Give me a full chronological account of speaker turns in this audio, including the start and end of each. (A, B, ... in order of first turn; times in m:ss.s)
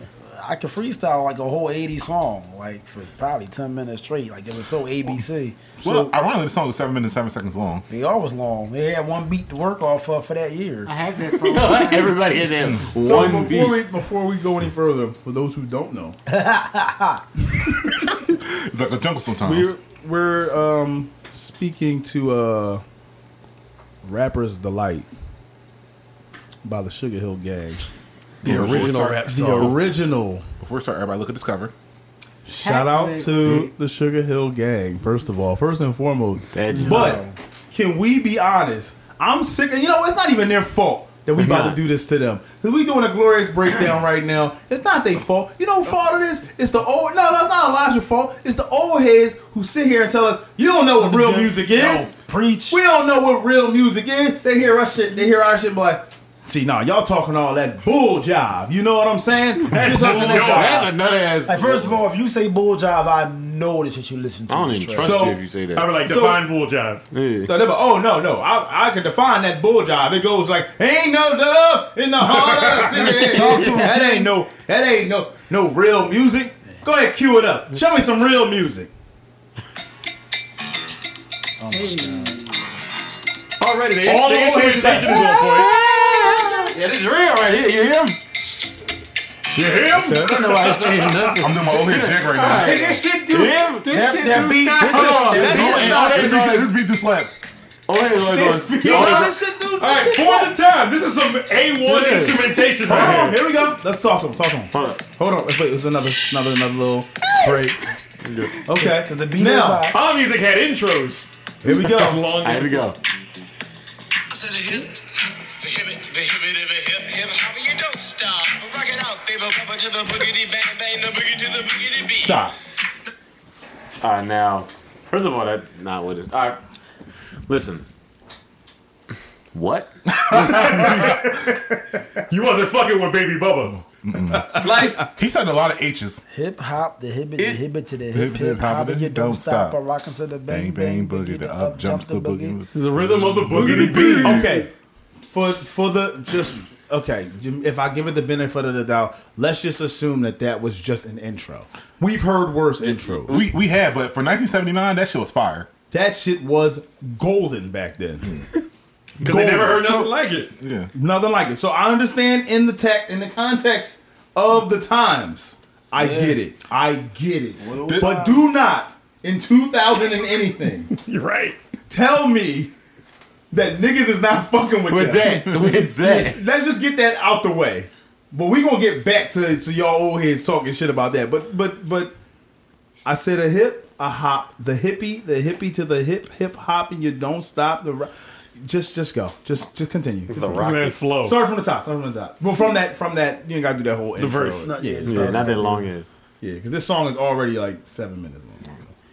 0:00.2-0:06.1 A
0:05.8-0:07.8 B
0:07.9-0:10.9 A
0:10.8-0:12.2 C
0:11.4-0:13.8 D
0:13.0-0:16.2 E
0:16.3-0:17.2 A
0:18.1-0:19.7 B
0:19.4-0:22.8 E
0:24.0-0:25.1 E
0:26.6-0:27.8 E
0:28.4-0:29.7 D
0:28.4-0:30.0 B
0:28.4-0:30.4 E
0:30.6-0:31.7 B
0:32.4-0:52.1 E
0:32.6-0:33.7 C
0:36.5-0:37.2 D
0:36.8-0:37.3 A
0:41.4-0:41.8 D
0:51.0-0:52.8 A
0:52.7-1:01.0 E
0:59.7-1:01.0 F
1:00.1-1:02.0 D
1:01.4-1:05.3 A
1:04.5-1:05.9 D
1:05.0-1:05.4 E
1:05.7-1:07.0 F
1:06.0-1:06.4 E
1:07.1-1:07.5 D
1:07.4-1:18.9 E
1:12.9-1:14.3 A
1:13.0-1:13.9 D
1:21.6-1:22.3 E
1:21.7-1:22.4 C
1:23.6-1:25.7 F
1:24.0-1:25.3 E
1:25.3-1:28.2 D
1:29.5-1:31.3 F
1:29.6-1:30.4 E
1:30.1-1:36.3 D
1:31.4-1:33.0 B
1:32.3-1:35.6 C
1:33.8-1:36.4 A
1:35.2-1:36.7 E
1:35.4-1:37.4 B
1:37.9-1:39.2 D
1:38.4-1:40.5 E
1:38.8-1:43.4 F
1:41.9-1:42.2 D
1:42.8-1:47.9 E
1:44.7-1:45.0 D
1:48.2-1:48.5 D
1:48.6-1:49.9 E
1:48.7-1:50.0 A
1:49.9-1:52.9 F
1:51.6-1:52.2 E
1:52.0-1:53.0 D
1:54.3-1:55.0 G
1:55.6-2:02.5 G
2:02.2-2:02.5 E
2:04.0-2:06.6 D
2:07.5-2:07.8 D
2:09.5-2:10.9 D
2:10.2-2:10.8 B
2:10.4-2:11.2 F
2:12.3-2:13.8 F
2:13.9-2:16.2 B
2:14.3-2:15.0 E
2:14.6-2:15.1 D
2:16.3-2:22.6 A
2:18.1-2:19.8 B
2:20.5-2:24.6 B
2:22.7-2:24.6 F
2:23.5-2:24.7 E
2:25.3-2:33.5 E
2:33.0-2:35.7 B
2:35.9-2:38.4 E
2:39.2-2:40.1 E
2:39.2-2:40.5 F
2:40.6-2:40.9 B
2:40.9-2:50.9 E
2:45.9-2:46.4 A
2:47.6-2:48.4 A
2:47.8-2:48.2 B
2:50.9-2:51.6 F
2:51.9-2:52.7 E
2:53.5-3:02.1 E
2:54.9-2:56.4 D
3:03.0-3:10.7 E
3:10.3-3:11.0 D
3:10.5-3:11.4 F
3:11.2-3:15.6 E
3:14.2-3:14.7 F
3:14.2-3:15.9 A
3:15.0-3:16.0 D
3:16.4-3:18.8 E